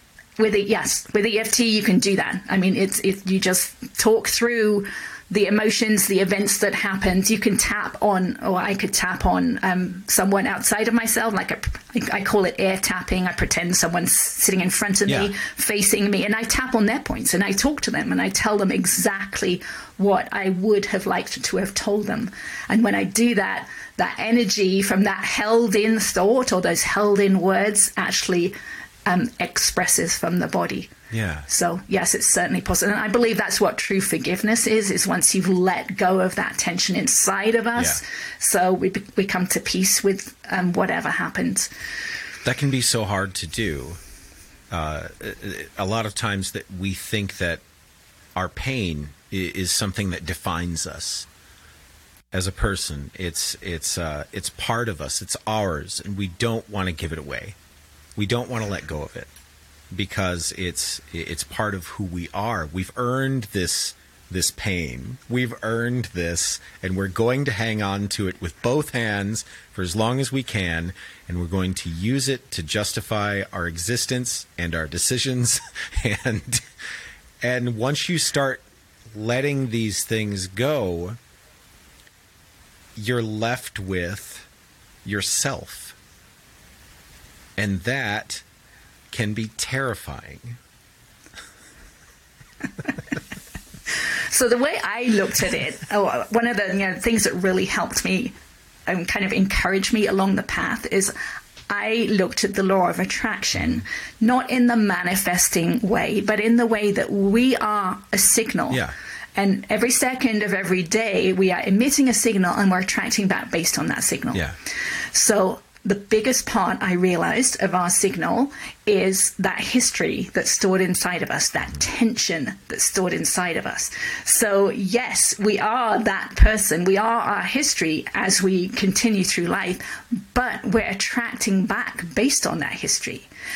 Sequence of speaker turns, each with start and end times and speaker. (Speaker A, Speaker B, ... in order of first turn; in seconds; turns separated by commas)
Speaker A: 0.4-28.5, Speaker B: 15.1-15.3, Speaker A: 29.1-30.9, Speaker B: 31.1-31.5, Speaker A: 31.5-41.7, Speaker B: 42.4-44.0, Speaker B: 44.7-47.6, Speaker B: 48.4-51.3, Speaker B: 52.3-57.6, Speaker B: 58.1-59.3, Speaker B: 59.9-76.7, Speaker B: 77.4-81.2, Speaker B: 83.0-84.5, Speaker B: 85.0-86.0, Speaker B: 87.6-88.4, Speaker B: 89.1-90.6, Speaker A: 93.9-98.3, Speaker A: 98.9-101.1, Speaker A: 101.7-108.8, Speaker A: 109.3-114.4, Speaker A: 115.1-133.3